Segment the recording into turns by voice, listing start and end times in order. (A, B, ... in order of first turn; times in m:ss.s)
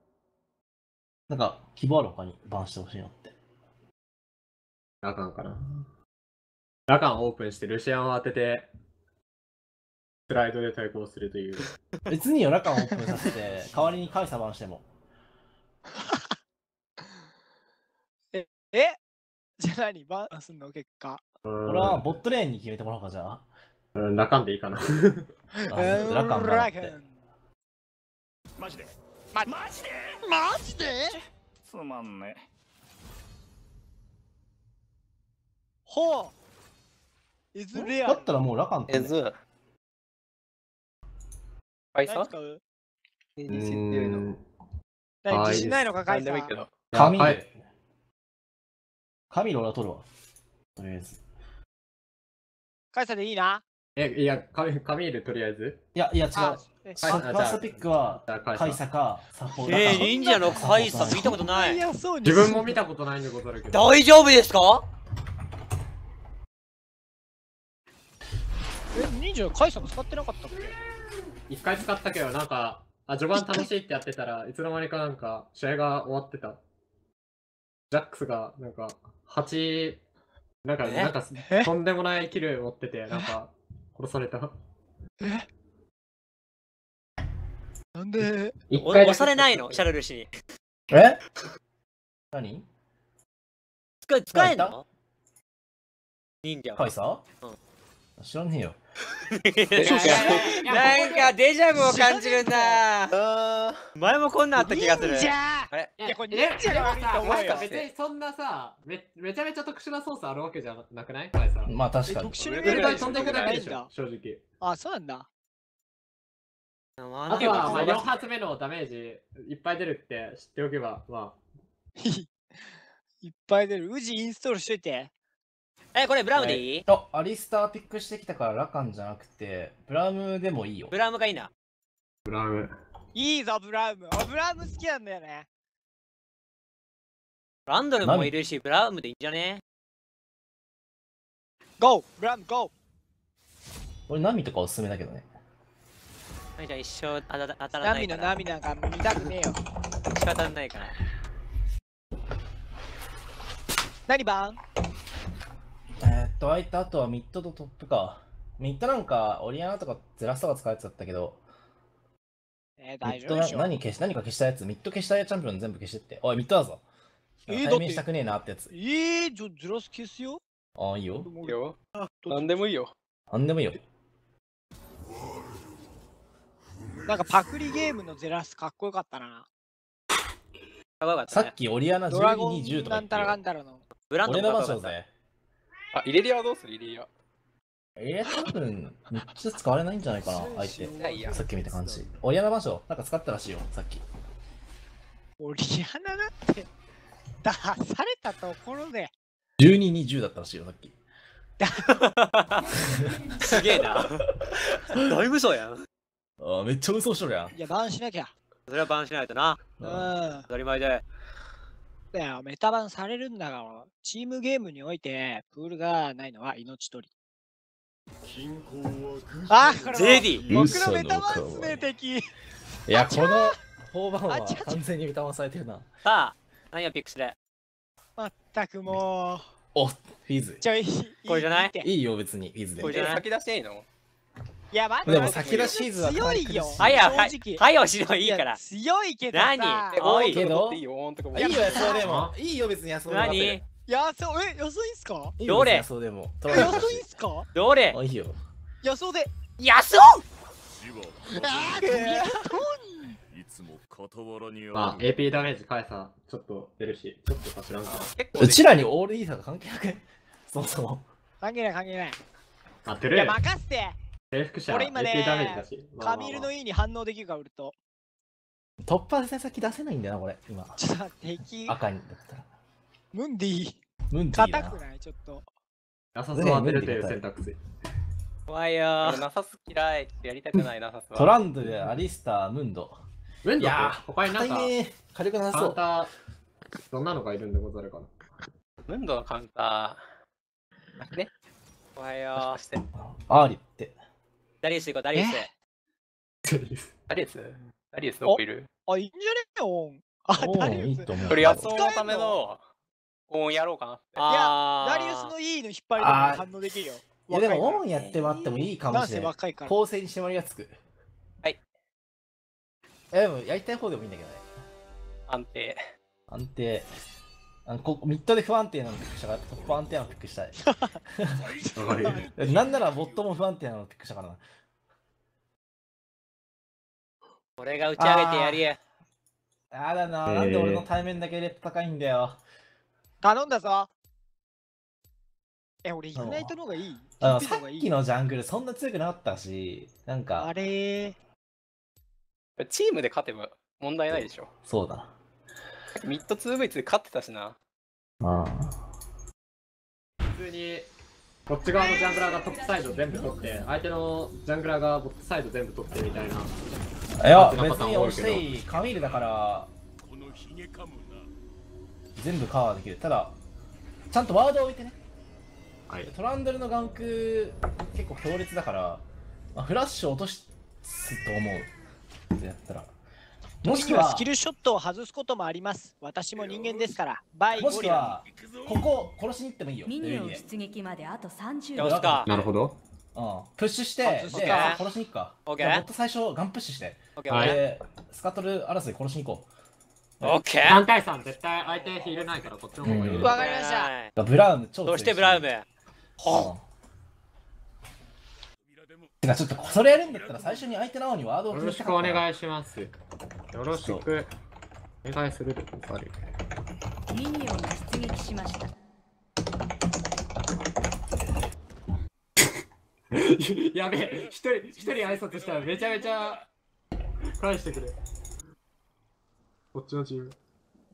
0:01.3-0:03.3 A
0:05.0-0:05.8 B
0:06.9-0:08.7 B
0:10.3-0:11.7 B
0:12.1-0:14.8 A
0:16.0-0:16.4 C
0:18.3-0:19.0 C
0:19.6-0:21.2 C
0:21.4-0:22.1 B
0:21.6-0:23.4 A
0:24.0-0:25.3 B
0:25.6-0:27.2 C
0:25.7-0:27.0 A
0:28.6-0:29.9 D
0:30.2-0:31.2 C
0:31.7-0:32.4 D
0:35.9-0:36.4 C
0:37.5-0:38.3 C
0:37.7-0:39.1 A
0:38.9-0:39.4 E
0:41.9-0:42.3 E
0:42.1-0:42.6 C
0:43.4-0:44.3 E
0:43.5-0:44.4 B
0:45.2-0:46.6 C
0:45.3-0:45.8 B
0:46.1-0:46.7 E
0:46.9-0:47.4 B
0:46.9-0:47.5 A
0:49.3-0:50.1 A
0:50.8-0:51.2 A
0:52.9-0:53.6 C
0:54.0-0:55.8 B
0:56.0-1:01.4 A
0:56.4-0:57.4 C
0:57.0-0:58.8 B
0:59.6-1:01.8 F
0:59.8-1:02.8 C
1:02.2-1:04.0 B
1:03.7-1:04.8 F
1:08.9-1:10.8 C
1:11.5-1:16.6 B
1:13.4-1:13.7 C
1:17.9-1:20.0 B
1:20.6-1:24.5 B
1:20.8-1:21.1 F
1:25.2-1:25.5 C
1:28.0-1:28.5 C
1:28.7-1:29.8 B
1:28.8-1:30.3 F
1:30.9-1:31.2 A
1:32.3-1:32.7 A
1:34.0-1:34.8 F
1:34.3-1:34.8 A
1:36.4-1:36.9 F
1:36.8-1:37.2 A
1:38.2-1:38.8 A
1:39.3-1:43.2 F
1:39.8-1:40.6 E
1:39.8-1:41.3 B
1:40.0-1:40.5 C
1:41.8-1:43.9 E
1:44.0-1:45.9 F
1:44.6-1:47.7 C
1:46.0-1:51.8 B
1:47.2-1:47.8 E
1:47.3-1:47.6 F
1:51.7-1:52.4 A
1:52.1-1:53.9 C
1:52.4-1:53.7 E
1:52.6-1:54.4 B
1:54.6-1:55.3 C
1:57.0-1:58.2 F
1:57.3-2:01.4 B
1:57.3-1:58.0 E
2:02.0-2:02.3 C
2:03.2-2:05.1 C
2:06.0-2:06.9 F
2:06.4-2:06.6 B
2:06.9-2:10.9 A
2:10.9-2:11.5 F
2:12.3-2:12.7 B
2:13.2-2:15.5 C
2:17.7-2:19.6 F
2:18.0-2:18.3 A
2:21.8-2:22.7 C
2:24.1-2:25.3 A
2:26.6-2:28.4 F
2:27.8-2:29.6 C
2:30.1-2:31.0 F
2:34.1-2:34.6 C
2:36.0-2:41.4 A
2:42.8-2:43.7 C
2:43.0-2:46.8 A
2:47.5-2:48.7 A
2:47.5-2:48.0 C
2:48.7-2:50.4 C
2:50.8-2:51.3 A
2:51.2-2:52.4 C
2:51.4-2:51.8 E
2:52.3-2:53.0 E
2:53.3-2:53.8 A
2:57.1-2:59.5 C
3:01.0-3:01.5 F
3:01.3-3:03.4 A
3:02.1-3:03.8 C
3:04.1-3:04.9 F
3:04.2-3:05.1 A
3:05.9-3:07.1 E
3:08.0-3:14.0 A
3:10.2-3:11.8 C
3:10.8-3:12.2 D
3:11.0-3:11.4 E
3:15.4-3:16.7 C
3:17.4-3:19.1 C
3:19.6-3:21.0 A
3:21.6-3:22.0 C
3:21.8-3:22.7 F
3:23.0-3:24.0 A
3:23.4-3:25.9 F
3:26.4-3:27.6 A
3:27.6-3:28.3 C
3:28.7-3:29.7 F
3:29.8-3:30.1 A
3:29.8-3:30.5 C
3:30.5-3:31.0 F
3:32.1-3:37.1 C
3:38.2-3:40.8 D
3:39.5-3:42.3 C
3:39.9-3:40.4 F
3:40.5-3:41.9 A
3:42.9-3:45.9 A
3:42.9-3:43.6 C
3:44.3-3:44.8 C
3:46.0-3:47.4 F
3:48.2-3:49.5 C
3:49.8-3:50.6 A
3:50.6-3:51.9 C
3:51.3-3:51.8 F
3:51.8-3:53.1 A
3:52.8-3:53.9 E
3:52.8-3:53.2 F
3:54.7-3:57.6 C
3:55.0-3:57.2 A
3:55.1-3:55.8 E
3:56.8-3:58.6 F
3:58.2-4:00.0 C
3:59.3-4:00.5 F
3:59.9-4:02.0 E
4:00.2-4:00.8 A
4:01.3-4:03.6 A
4:01.4-4:02.0 C
4:02.0-4:02.4 B
4:03.1-4:03.6 F
4:03.9-4:05.4 C
4:05.4-4:07.0 A
4:05.4-4:05.8 F
4:06.5-4:07.5 C
4:07.5-4:08.0 F
4:07.9-4:08.4 A
4:08.8-4:09.3 C
4:09.6-4:10.2 F
4:10.8-4:12.0 D
4:11.4-4:13.2 C
4:11.4-4:12.4 E
4:13.3-4:15.5 D
4:14.7-4:18.1 B
4:17.9-4:18.8 E
4:18.4-4:21.1 A
4:21.4-4:22.2 C
4:22.9-4:23.4 B
4:23.1-4:24.0 C
4:24.3-4:26.5 B
4:24.7-4:27.8 C
4:28.8-4:30.8 A
4:30.8-4:31.8 C
4:31.7-4:32.5 A
4:33.1-4:33.8 C
4:34.1-4:34.8 A
4:34.3-4:35.5 C
4:36.2-4:37.6 B
4:36.4-4:37.2 A
4:38.5-4:39.2 F
4:39.0-4:41.4 E
4:41.2-4:43.0 A
4:43.4-4:44.7 B
4:43.6-4:45.8 A
4:45.5-4:46.1 B
4:46.9-4:48.1 B
4:48.9-4:50.0 E
4:51.0-4:51.3 E
4:52.0-4:52.6 F
4:52.3-4:52.8 E
4:53.0-4:54.0 A
4:54.6-4:55.5 F
4:55.2-4:55.5 A
4:56.5-4:56.9 B
4:57.1-4:58.7 E
4:58.3-5:02.4 C
5:00.4-5:01.8 A
5:01.3-5:02.6 E
5:03.3-5:04.3 E
5:04.2-5:05.3 F
5:04.2-5:07.9 C
5:06.0-5:06.5 A
5:07.3-5:10.8 A
5:08.9-5:09.8 C
5:13.1-5:14.4 A
5:15.3-5:15.9 E
5:16.3-5:16.9 A
5:17.7-5:21.5 A
5:20.6-5:21.0 C
5:21.6-5:22.3 C
5:21.8-5:22.3 B
5:22.4-5:24.4 A
5:27.6-5:28.8 F
5:28.0-5:28.6 A
5:29.7-5:32.4 A
5:30.3-5:30.9 B
5:33.2-5:33.9 C
5:35.8-5:37.9 C
5:36.2-5:36.5 A
5:37.2-5:40.5 A
5:40.4-5:41.2 C
5:42.6-5:44.5 E
5:44.1-5:45.1 A
5:46.0-5:47.6 E
5:48.2-5:48.8 A
5:50.3-5:50.9 B
5:51.5-5:56.5 B
5:51.8-5:53.6 G
5:57.2-5:59.7 A
5:57.3-5:58.5 B
6:02.2-6:03.4 A
6:04.1-6:05.0 A
6:06.0-6:09.0 A
6:09.6-6:11.7 A
6:12.4-6:12.9 A
6:13.6-6:14.3 A
6:13.6-6:18.2 C
6:17.5-6:20.4 A
6:19.8-6:22.0 G
6:21.8-6:22.3 F
6:21.8-6:22.3 A
6:22.3-6:22.8 B
6:23.1-6:29.5 A
6:24.0-6:24.8 C
6:24.3-6:24.8 F
6:25.5-6:25.8 F
6:27.2-6:27.6 F
6:27.3-6:27.6 B
6:30.2-6:30.8 F
6:30.6-6:33.4 B
6:32.8-6:33.4 A
6:33.2-6:33.9 C
6:33.2-6:34.1 F
6:34.2-6:35.5 A
6:34.9-6:35.6 F
6:36.2-6:36.5 F
6:36.3-6:36.6 A
6:39.2-6:42.3 A
6:41.5-6:42.9 B
6:43.5-6:44.3 B
6:43.7-6:44.1 A
6:45.0-6:46.2 B
6:47.1-6:48.7 G
6:53.1-6:56.4 B
6:57.4-6:58.0 B
6:59.7-7:00.4 B